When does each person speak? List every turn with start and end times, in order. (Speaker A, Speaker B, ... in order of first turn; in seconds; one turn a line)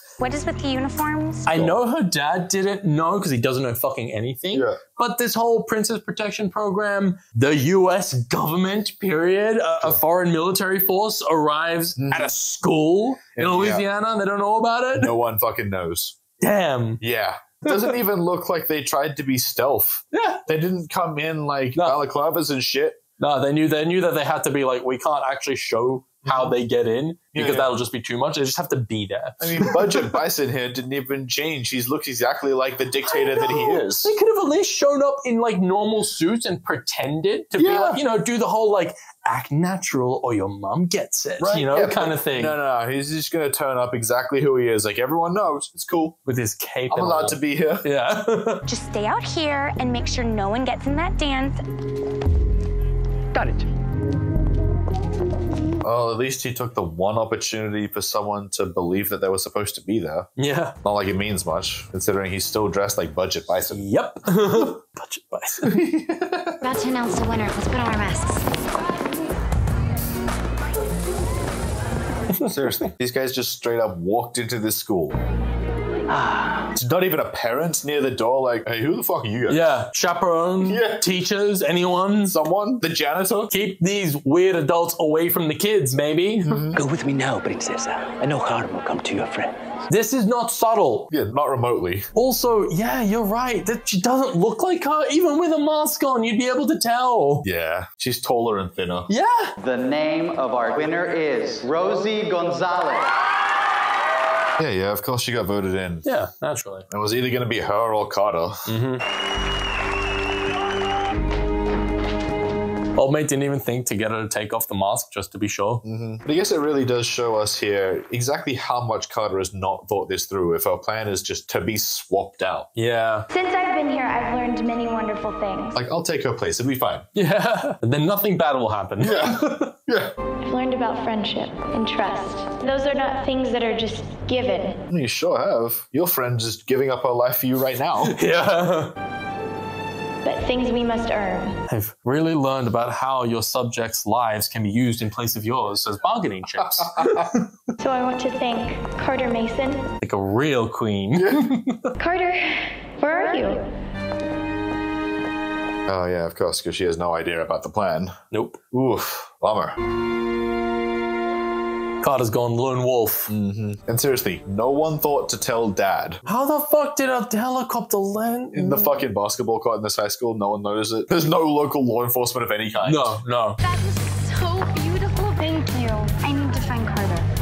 Speaker A: 0.2-1.5
Speaker B: 0.2-1.1
Speaker C: 1.5-15.1
Speaker D: 1.5-1.8
Speaker D: 4.5-4.8
Speaker D: 12.0-12.3
Speaker D: 13.3-13.8
Speaker D: 14.9-16.2
Speaker C: 16.4-17.0
Speaker D: 17.0-23.0
Speaker C: 20.1-20.4
Speaker C: 23.2-30.1
Speaker D: 26.2-26.5
Speaker D: 27.3-27.7
Speaker D: 29.4-34.1
Speaker C: 33.1-42.6
Speaker D: 37.6-38.0
Speaker D: 41.4-46.2
Speaker C: 46.3-48.6
Speaker D: 46.9-47.9
Speaker B: 48.7-51.6
Speaker D: 55.8-60.3
Speaker C: 60.4-60.8
Speaker D: 60.8-63.8
Speaker C: 63.7-65.9
Speaker D: 65.7-66.6
Speaker A: 66.6-68.5
Speaker D: 72.4-75.2
Speaker D: 76.8-79.7
Speaker C: 79.5-82.4
Speaker D: 80.6-81.0
Speaker D: 82.3-83.5
Speaker C: 83.5-86.7
Speaker D: 86.5-86.8
Speaker E: 86.7-89.6
Speaker C: 89.9-91.1
Speaker D: 91.1-92.1
Speaker C: 92.1-97.5
Speaker D: 97.4-99.1
Speaker C: 99.1-99.5
Speaker F: 99.6-103.1
Speaker D: 104.6-106.1
Speaker C: 106.1-106.9
Speaker D: 106.9-108.7
Speaker C: 108.7-109.0
Speaker C: 113.0-115.8
Speaker D: 115.8-122.7
Speaker C: 122.8-123.3
Speaker B: 123.3-125.8
Speaker D: 125.7-127.1
Speaker C: 127.2-129.7
Speaker D: 129.0-130.1
Speaker B: 130.4-134.8
Speaker D: 134.9-138.2
Speaker C: 138.1-138.9
Speaker B: 140.2-141.6
Speaker C: 141.7-147.4
Speaker D: 146.6-147.3
Speaker B: 147.8-149.9
Speaker C: 150.0-151.9
Speaker D: 151.2-151.6
Speaker B: 152.0-153.7
Speaker D: 155.9-158.2
Speaker C: 158.3-158.6
Speaker D: 158.7-159.8
Speaker C: 162.0-163.3
Speaker D: 163.3-166.2
Speaker C: 166.3-168.9
Speaker D: 168.5-173.1
Speaker C: 172.8-173.6
Speaker B: 173.7-176.1
Speaker A: 176.1-177.3